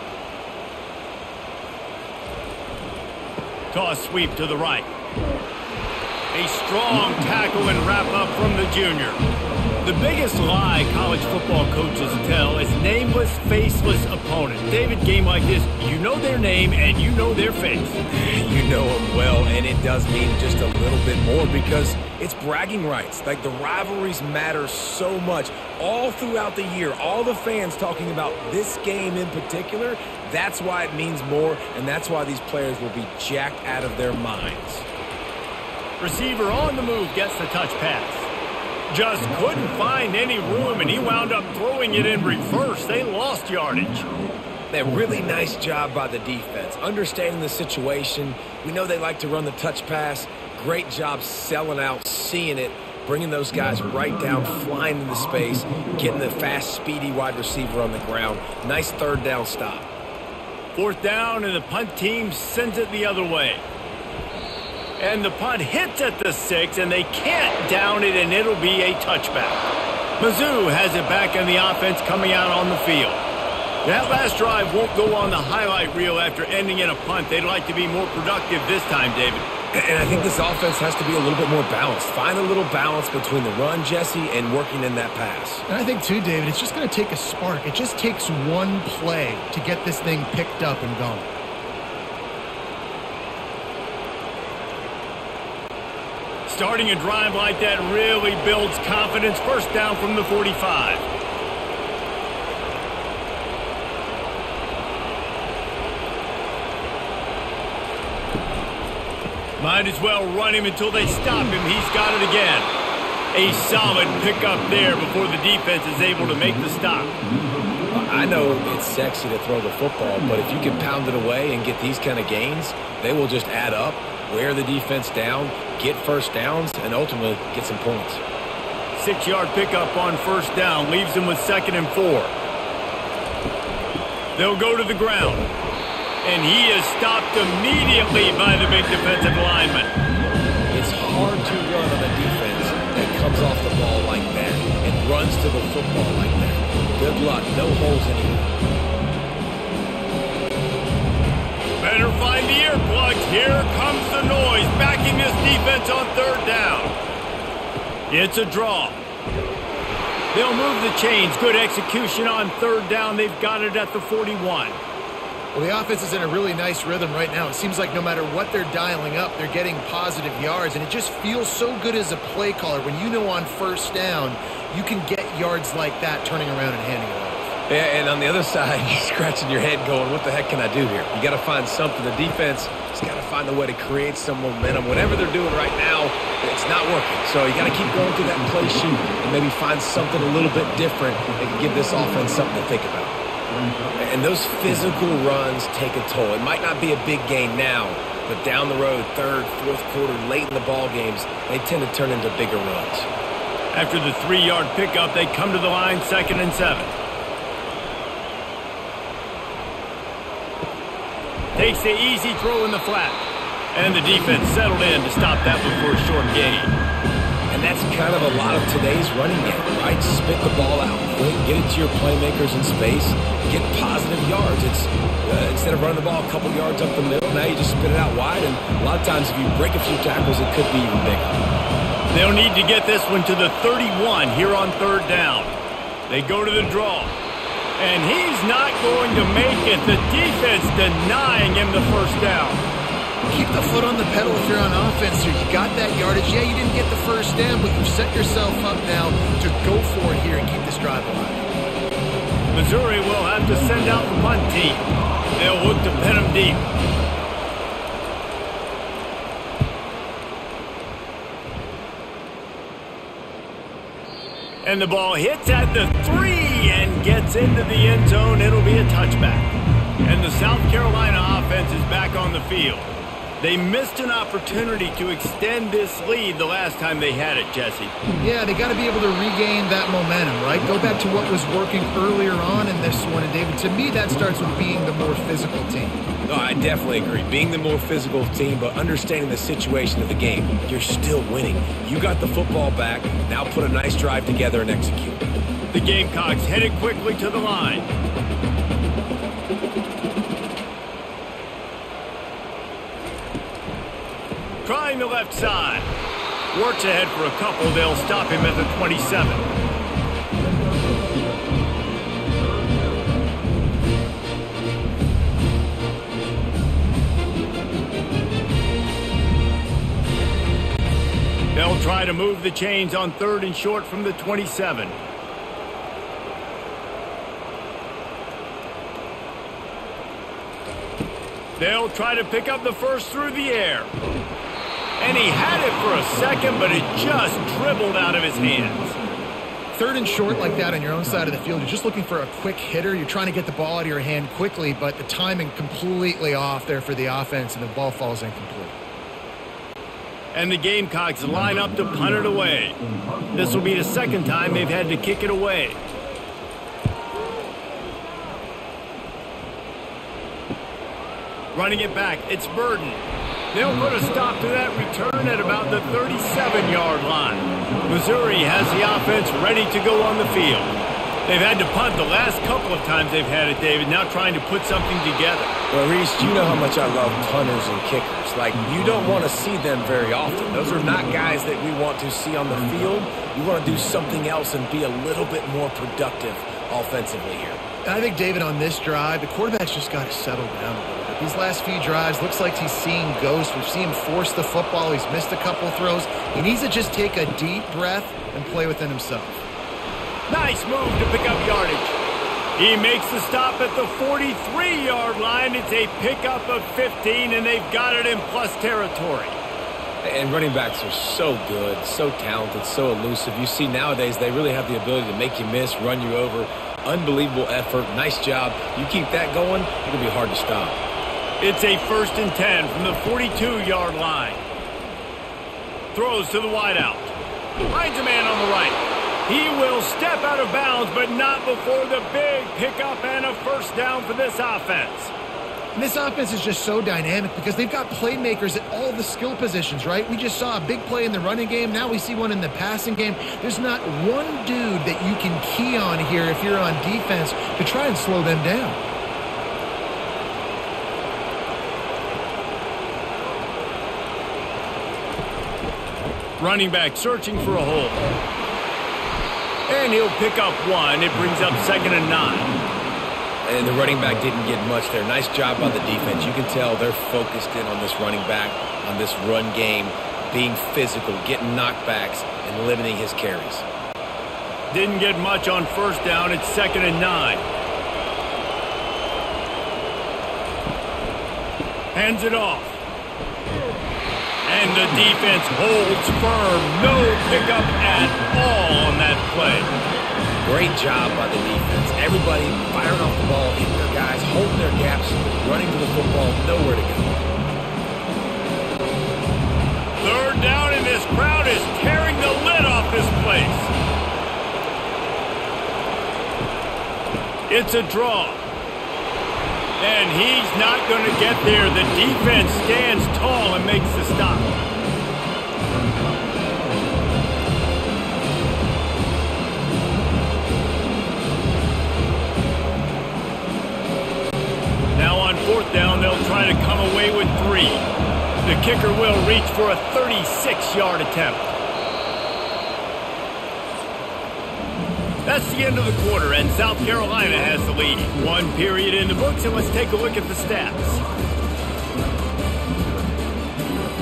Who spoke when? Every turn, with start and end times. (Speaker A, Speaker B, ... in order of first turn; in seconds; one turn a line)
Speaker A: 3.7-4.9
Speaker A: 6.3-9.2
Speaker A: 9.8-18.0
Speaker B: 18.1-34.9
Speaker A: 36.0-38.3
Speaker A: 38.9-44.0
Speaker B: 44.7-59.9
Speaker A: 60.7-63.6
Speaker A: 65.0-69.6
Speaker A: 70.2-73.2
Speaker A: 73.8-79.5
Speaker B: 79.7-85.6
Speaker C: 85.7-91.3
Speaker A: 96.5-101.0
Speaker A: 109.6-112.7
Speaker A: 113.3-117.1
Speaker B: 117.9-128.2
Speaker A: 128.9-132.3
Speaker A: 134.3-135.5
Speaker A: 136.2-139.9
Speaker B: 140.7-148.6
Speaker A: 151.8-156.9
Speaker A: 158.1-159.0
Speaker A: 160.3-164.8
Speaker C: 165.5-177.5
Speaker B: 177.7-193.2
Speaker B: 193.9-203.1
Speaker A: 203.7-206.9
Speaker A: 211.5-213.2
Speaker A: 213.7-216.7
Speaker B: 217.5-231.4
Speaker A: 232.1-235.5
Speaker A: 236.1-237.1
Speaker A: 237.8-242.6
Speaker C: 243.3-251.5
Speaker A: 252.5-256.6
Speaker A: 264.6-277.9
Speaker C: 278.2-286.0
Speaker B: 286.2-295.3
Speaker A: 295.7-297.9
Speaker A: 304.6-305.9
Speaker A: 306.5-309.4
Speaker A: 321.5-325.0
Speaker A: 331.6-333.9
Speaker A: 335.0-339.0
Speaker C: 339.7-348.8
Speaker A: 350.3-352.8
Speaker A: 353.3-355.8
Speaker A: 361.5-363.0
Speaker A: 363.5-375.6
Speaker B: 375.7-387.6
Speaker C: 387.8-399.4
Speaker A: 400.3-402.0
Speaker A: 402.6-409.4
Speaker B: 410.0-420.8
Speaker A: 421.4-424.4
Speaker A: 425.9-427.1
Speaker A: 427.7-435.1
Speaker C: 435.7-448.8
Speaker A: 456.4-458.0
Speaker A: 459.7-462.5
Speaker B: 463.4-473.6
Speaker A: 474.7-477.4
Speaker A: 481.9-482.8
Speaker A: 484.4-489.7
Speaker B: 490.4-497.3
Speaker A: 500.0-503.7
Speaker A: 507.5-508.4
Speaker A: 509.8-514.5
Speaker A: 525.0-527.8
Speaker A: 528.4-531.5
Speaker A: 535.2-541.0